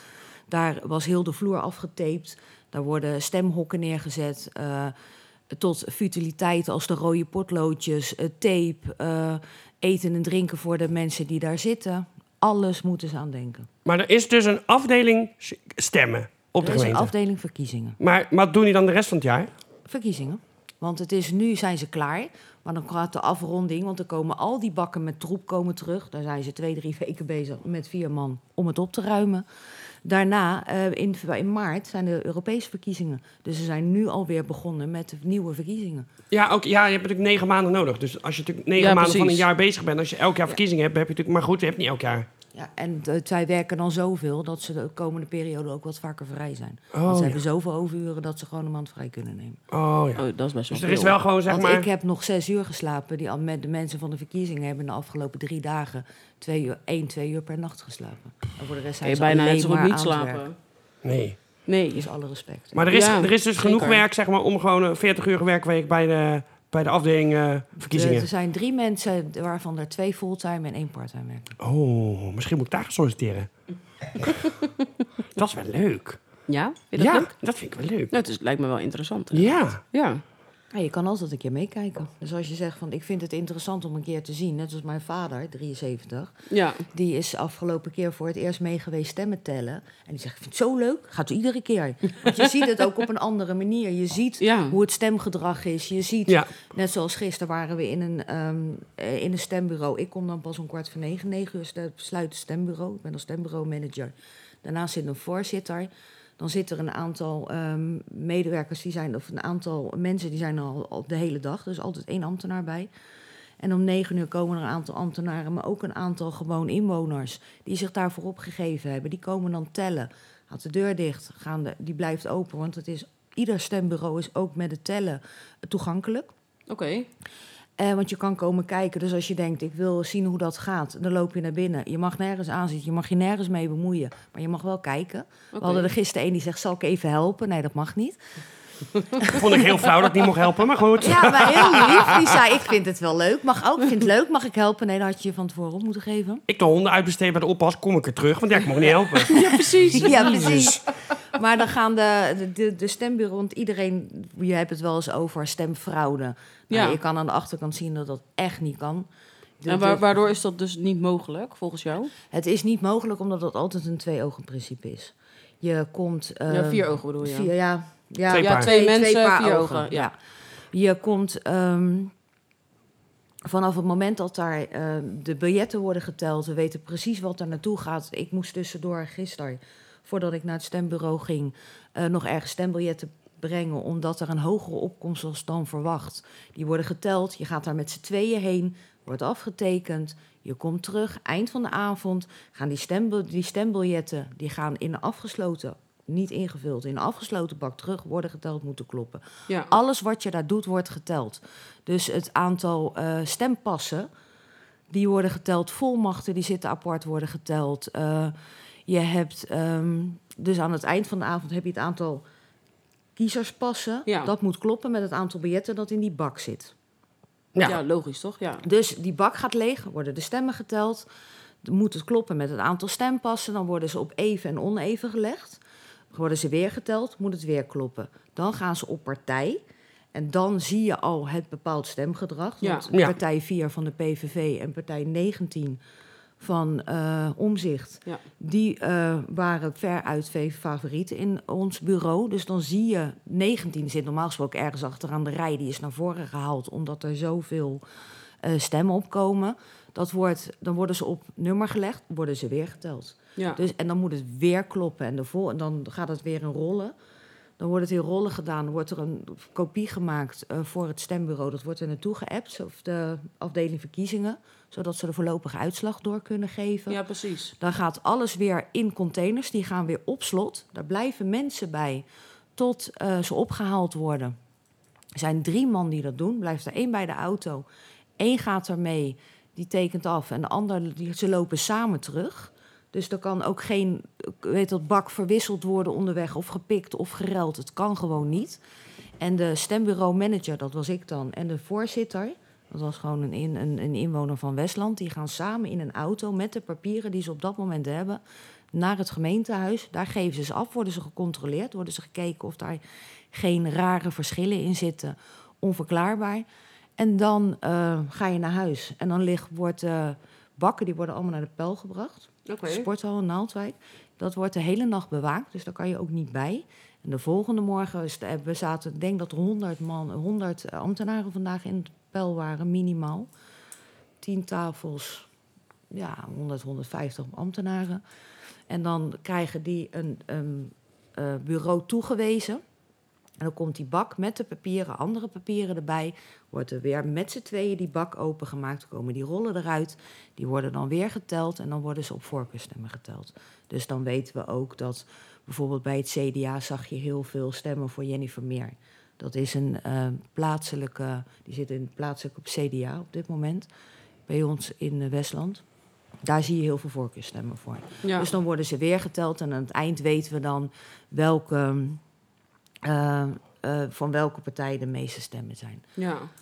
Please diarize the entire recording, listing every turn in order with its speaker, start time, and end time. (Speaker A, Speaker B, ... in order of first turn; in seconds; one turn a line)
Speaker A: 0.5-4.9
Speaker A: 5.5-13.7
Speaker B: 13.8-17.1
Speaker A: 16.6-18.0
Speaker B: 18.0-19.5
Speaker A: 19.9-29.4
Speaker A: 30.0-36.0
Speaker B: 36.3-42.3
Speaker C: 38.8-39.5
Speaker A: 42.5-49.6
Speaker B: 46.9-47.4
Speaker B: 49.7-51.9
Speaker C: 50.2-51.2
Speaker A: 51.5-60.4
Speaker C: 59.0-60.5
Speaker B: 61.0-61.4
Speaker C: 61.6-62.1
Speaker A: 62.0-62.9
Speaker B: 62.7-68.3
Speaker C: 62.9-64.0
Speaker A: 67.8-71.5
Speaker B: 71.6-73.5
Speaker B: 75.3-76.2
Speaker C: 76.5-77.3
Speaker B: 77.0-78.1
Speaker C: 78.1-80.2
Speaker B: 79.3-79.8
Speaker A: 80.7-86.3
Speaker C: 86.5-86.8
Speaker A: 86.9-112.9
Speaker C: 94.4-94.8
Speaker A: 113.6-126.3
Speaker C: 126.7-127.1
Speaker A: 127.8-138.2
Speaker C: 135.5-135.9
Speaker A: 139.2-139.5
Speaker B: 139.3-142.4
Speaker A: 141.0-146.4
Speaker B: 146.5-150.8
Speaker C: 149.2-150.8
Speaker A: 149.3-159.1
Speaker C: 156.7-157.0
Speaker A: 159.6-160.1
Speaker C: 159.7-162.1
Speaker A: 162.3-170.1
Speaker C: 166.5-167.5
Speaker B: 168.3-168.7
Speaker C: 168.4-170.1
Speaker A: 170.7-172.1
Speaker A: 173.4-204.1
Speaker C: 199.5-199.7
Speaker A: 204.9-208.3
Speaker A: 208.9-212.2
Speaker A: 213.2-216.7
Speaker C: 214.1-214.3
Speaker C: 217.6-218.6
Speaker A: 218.6-221.1
Speaker A: 221.6-225.6
Speaker A: 226.1-229.6
Speaker A: 230.1-235.8
Speaker A: 236.4-247.8
Speaker A: 248.4-256.9
Speaker C: 253.4-253.6
Speaker A: 257.6-267.0
Speaker C: 266.9-267.5
Speaker A: 267.6-272.0
Speaker A: 272.6-274.4
Speaker A: 275.1-277.6
Speaker A: 278.2-288.6
Speaker A: 289.2-298.2
Speaker A: 298.7-302.8
Speaker A: 303.3-306.4
Speaker A: 307.0-323.3
Speaker C: 312.5-312.9
Speaker A: 324.2-325.3
Speaker A: 325.9-328.0
Speaker A: 328.7-332.6
Speaker A: 333.4-353.7
Speaker A: 354.3-355.6
Speaker A: 356.2-362.0
Speaker C: 358.0-358.3
Speaker A: 362.8-365.8
Speaker C: 365.9-366.3